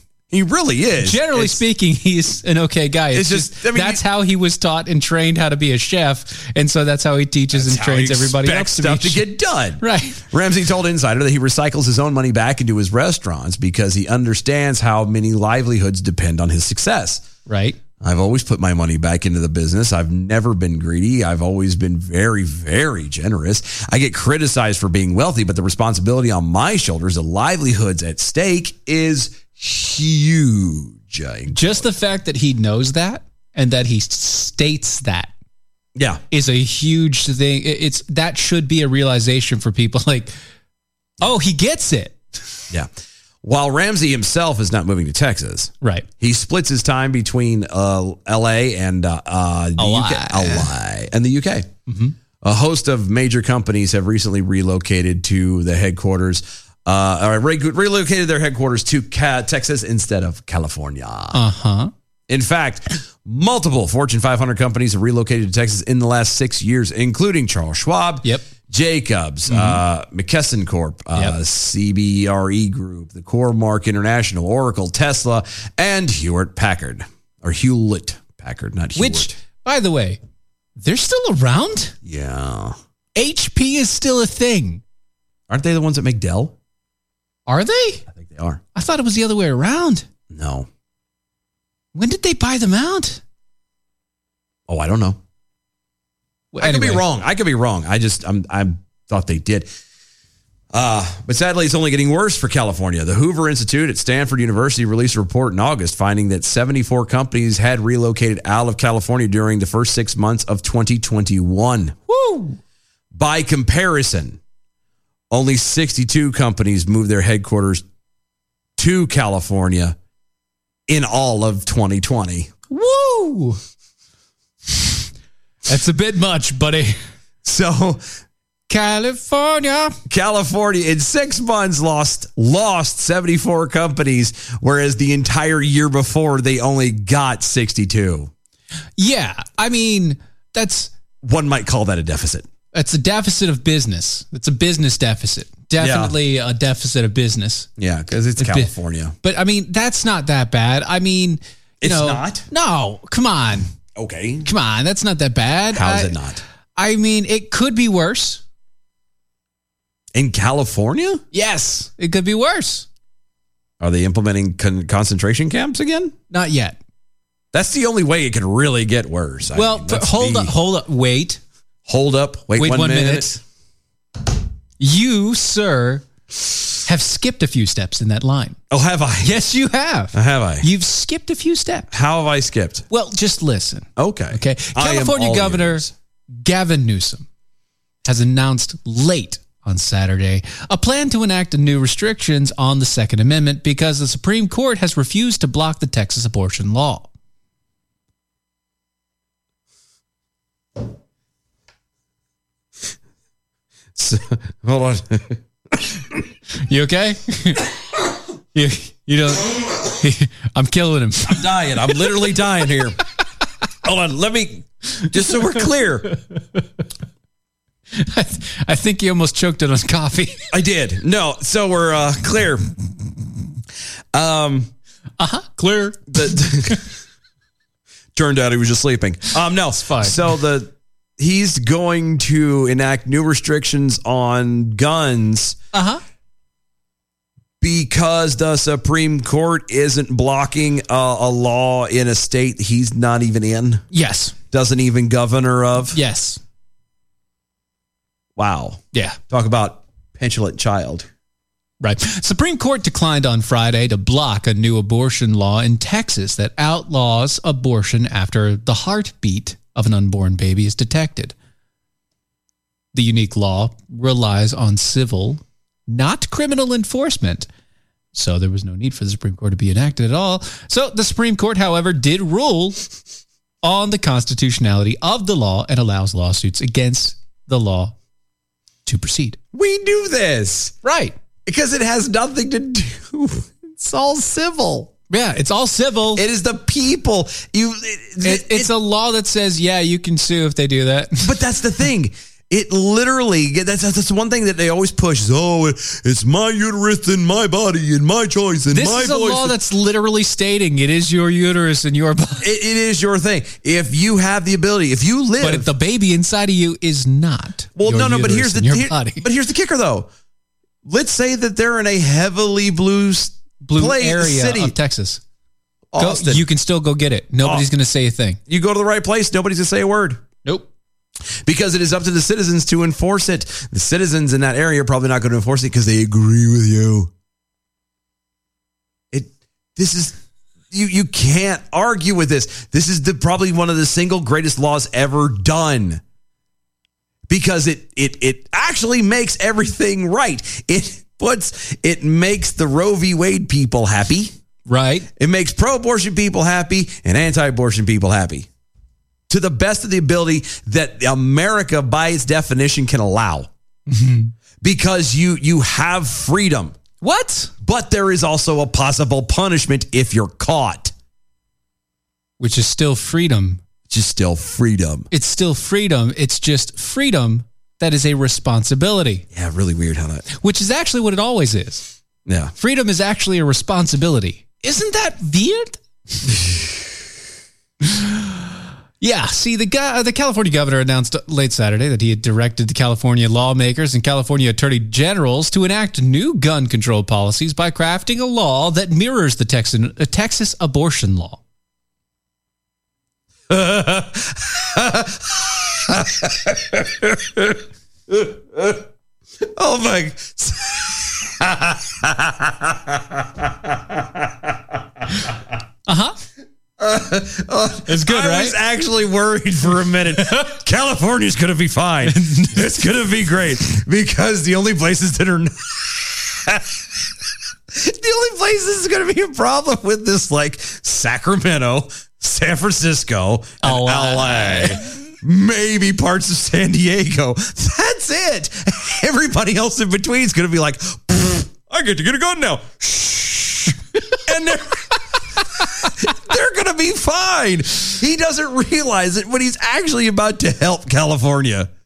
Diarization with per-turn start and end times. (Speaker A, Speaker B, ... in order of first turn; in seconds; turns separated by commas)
Speaker A: 0.3-1.6, Speaker B: 1.0-9.3, Speaker A: 3.1-4.0, Speaker A: 7.5-17.2, Speaker B: 9.8-10.2, Speaker B: 17.5-17.8, Speaker A: 18.0-31.9, Speaker B: 31.5-35.3, Speaker A: 36.0-36.2, Speaker B: 36.3-40.3, Speaker B: 41.2-42.2, Speaker A: 43.4-51.7, Speaker B: 45.8-46.1, Speaker B: 49.8-50.7, Speaker B: 51.9-52.1, Speaker A: 52.4-61.4, Speaker B: 61.3-61.9, Speaker A: 62.3-79.3, Speaker B: 69.5-69.8, Speaker B: 79.0-80.2, Speaker B: 80.8-82.0, Speaker A: 82.0-82.8, Speaker B: 83.2-84.8, Speaker A: 85.5-86.5, Speaker B: 87.5-88.0, Speaker A: 88.1-88.6, Speaker B: 88.8-90.1, Speaker A: 90.3-90.7, Speaker B: 91.9-93.2, Speaker A: 94.7-95.2, Speaker B: 96.5-97.0, Speaker A: 96.6-99.7, Speaker A: 100.7-112.0, Speaker B: 112.1-112.6, Speaker A: 113.1-114.4, Speaker A: 115.3-117.8, Speaker A: 118.8-120.0, Speaker A: 120.9-122.5, Speaker B: 122.7-123.6, Speaker B: 125.7-127.0, Speaker A: 127.4-128.0, Speaker B: 128.7-130.0, Speaker A: 130.1-138.3, Speaker B: 139.0-140.9, Speaker A: 141.2-142.5, Speaker B: 142.7-147.7, Speaker A: 145.8-146.2, Speaker A: 147.8-149.2, Speaker B: 148.4-153.7, Speaker A: 151.8-152.4, Speaker A: 154.0-154.5, Speaker B: 154.4-156.2, Speaker A: 155.7-156.4, Speaker B: 156.8-158.4, Speaker A: 160.1-161.2, Speaker B: 161.3-162.9, Speaker A: 163.8-166.2, Speaker B: 166.3-166.8, Speaker A: 167.5-170.5, Speaker B: 169.6-171.4, Speaker A: 171.9-173.4, Speaker B: 172.6-173.3, Speaker B: 174.8-176.1, Speaker B: 176.8-178.6, Speaker A: 178.7-179.4, Speaker B: 179.2-181.9, Speaker A: 180.1-180.7, Speaker A: 181.9-182.8, Speaker B: 182.9-187.3, Speaker A: 184.0-185.9, Speaker B: 188.1-197.1, Speaker A: 203.9-205.8, Speaker B: 206.7-207.7, Speaker B: 208.5-212.0, Speaker A: 211.2-213.0, Speaker A: 213.8-216.1, Speaker B: 217.9-220.4, Speaker A: 220.5-222.6, Speaker A: 224.1-224.7, Speaker B: 225.2-226.8, Speaker A: 226.1-226.8, Speaker A: 228.2-235.6, Speaker B: 229.7-230.2, Speaker B: 235.7-236.0, Speaker A: 237.6-243.8, Speaker B: 243.9-244.3, Speaker A: 244.5-246.0, Speaker B: 245.9-246.4, Speaker A: 248.4-251.1, Speaker B: 248.9-249.2, Speaker B: 251.8-261.4, Speaker B: 262.9-267.5, Speaker B: 268.1-272.9, Speaker B: 273.6-277.9, Speaker B: 278.9-279.4, Speaker A: 279.5-280.8, Speaker B: 280.8-281.2, Speaker A: 281.5-284.9, Speaker B: 285.1-286.2, Speaker A: 286.2-288.7, Speaker B: 288.2-291.3, Speaker A: 291.2-299.6, Speaker B: 298.7-302.5, Speaker A: 302.4-305.7, Speaker B: 305.4-309.3, Speaker A: 307.8-310.1, Speaker A: 310.9-314.8, Speaker B: 313.6-315.2, Speaker A: 315.9-316.4, Speaker B: 316.0-318.4, Speaker A: 318.5-320.2, Speaker A: 321.4-327.1, Speaker A: 329.1-330.2, Speaker A: 330.7-336.0, Speaker A: 337.3-344.3, Speaker B: 344.7-345.1, Speaker A: 345.2-348.5, Speaker A: 349.3-353.5, Speaker B: 353.9-354.3, Speaker A: 354.6-356.8, Speaker B: 357.0-357.5, Speaker A: 357.6-360.9, Speaker B: 362.4-363.6, Speaker A: 363.9-365.1, Speaker B: 365.1-369.2, Speaker A: 369.3-370.2, Speaker B: 370.3-371.9, Speaker A: 372.3-372.5, Speaker B: 372.6-375.8, Speaker B: 377.8-391.4, Speaker A: 393.5-398.8, Speaker A: 399.4-404.5, Speaker B: 405.9-406.2, Speaker A: 406.8-417.1, Speaker B: 407.9-408.6, Speaker B: 412.1-412.8, Speaker A: 417.7-434.9, Speaker B: 423.6-424.8, Speaker A: 435.6-441.7